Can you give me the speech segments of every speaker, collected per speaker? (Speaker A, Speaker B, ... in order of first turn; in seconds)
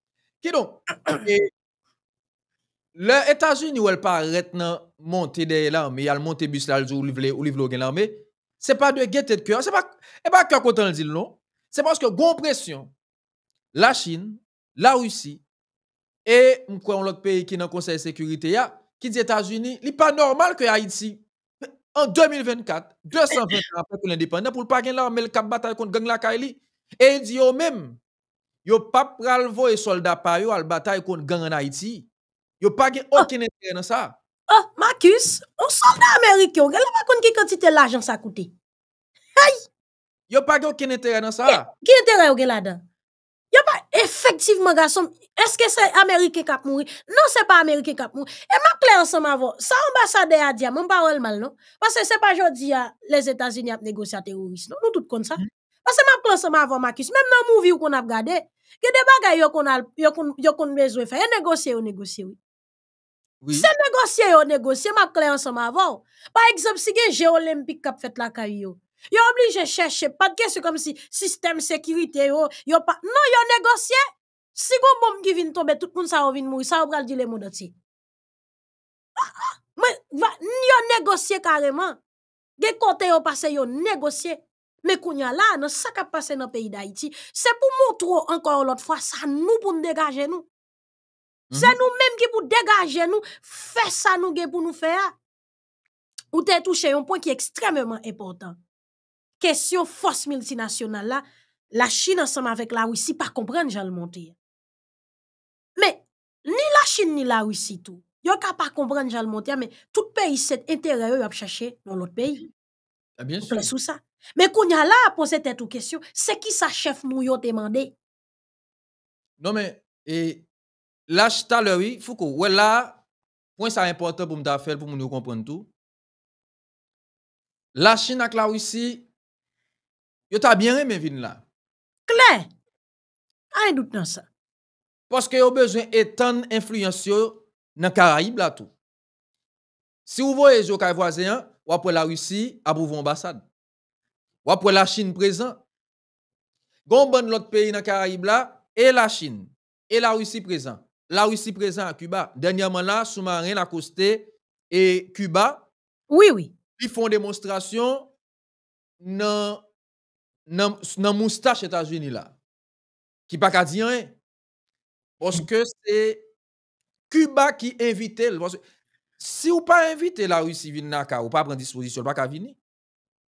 Speaker A: 0.4-1.5, 3.0-12.9, 13.7-15.4, 16.3-21.2, 21.9-28.0, 28.6-32.1, 32.6-34.2, 40.3-41.7, 63.4-63.7, 91.5-91.8, 113.2-113.7, 119.4-120.5, 121.1-123.0, 123.6-125.7, 127.8-129.1, 130.3-131.4, 135.1-138.7, 140.1-143.4, 144.4-145.6, 146.9-155.7, 156.8-158.1, 159.0-159.6, 160.5-162.3, 163.3-164.2, 165.2-166.2, 167.1-168.6, 169.2-172.6
Speaker B: 34.5-38.5, 39.4-39.6, 41.5-42.8, 43.5-62.4, 63.5-74.0, 74.5-77.7, 79.2-82.0, 82.6-90.5, 91.5-95.1, 96.3-98.6, 99.4-104.4, 105.8-112.5, 113.5-118.0, 132.1-132.5, 133.5-134.3, 156.1-156.6